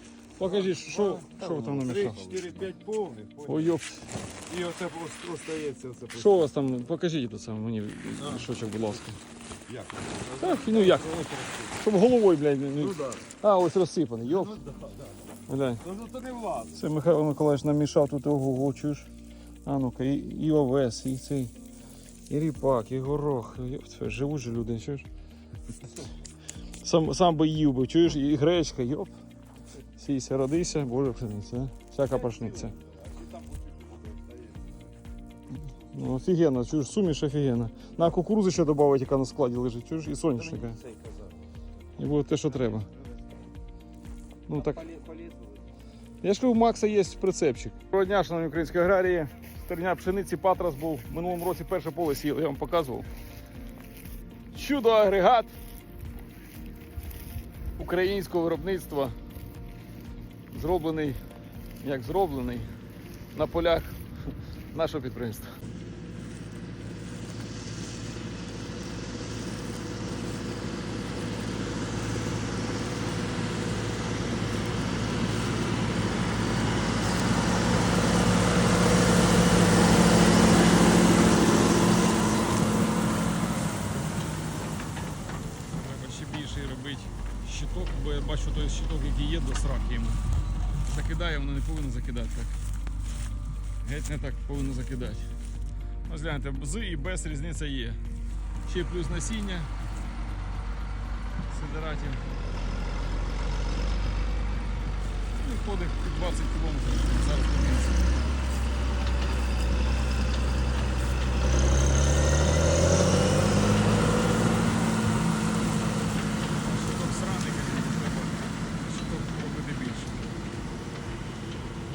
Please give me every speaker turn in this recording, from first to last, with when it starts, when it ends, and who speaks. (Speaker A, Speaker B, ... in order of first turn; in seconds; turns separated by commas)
Speaker A: 0.4-2.4, Speaker B: 0.4-3.8, Speaker A: 3.5-4.1, Speaker B: 4.5-6.5, Speaker A: 6.1-9.2, Speaker B: 8.2-8.5, Speaker B: 9.7-11.8, Speaker A: 10.3-14.6, Speaker B: 12.8-13.3, Speaker B: 14.3-15.1, Speaker A: 15.5-15.9, Speaker B: 15.8-16.8, Speaker A: 16.7-19.1, Speaker A: 19.6-21.5, Speaker A: 22.3-25.1, Speaker A: 26.8-29.1, Speaker A: 29.9-32.8, Speaker B: 32.1-34.9, Speaker A: 35.6-40.8, Speaker B: 40.4-41.4, Speaker A: 42.0-42.9, Speaker A: 44.5-44.9, Speaker B: 44.5-45.7, Speaker A: 46.2-53.1, Speaker A: 54.5-55.5, Speaker A: 57.8-59.2, Speaker A: 60.5-61.2, Speaker A: 61.8-62.7, Speaker A: 63.3-64.0, Speaker A: 64.7-65.6, Speaker A: 85.7-90.2, Speaker A: 90.8-92.5, Speaker A: 93.8-95.3, Speaker A: 96.1-98.0, Speaker A: 98.7-99.7, Speaker A: 101.5-102.2, Speaker A: 105.3-108.1, Speaker A: 116.6-120.2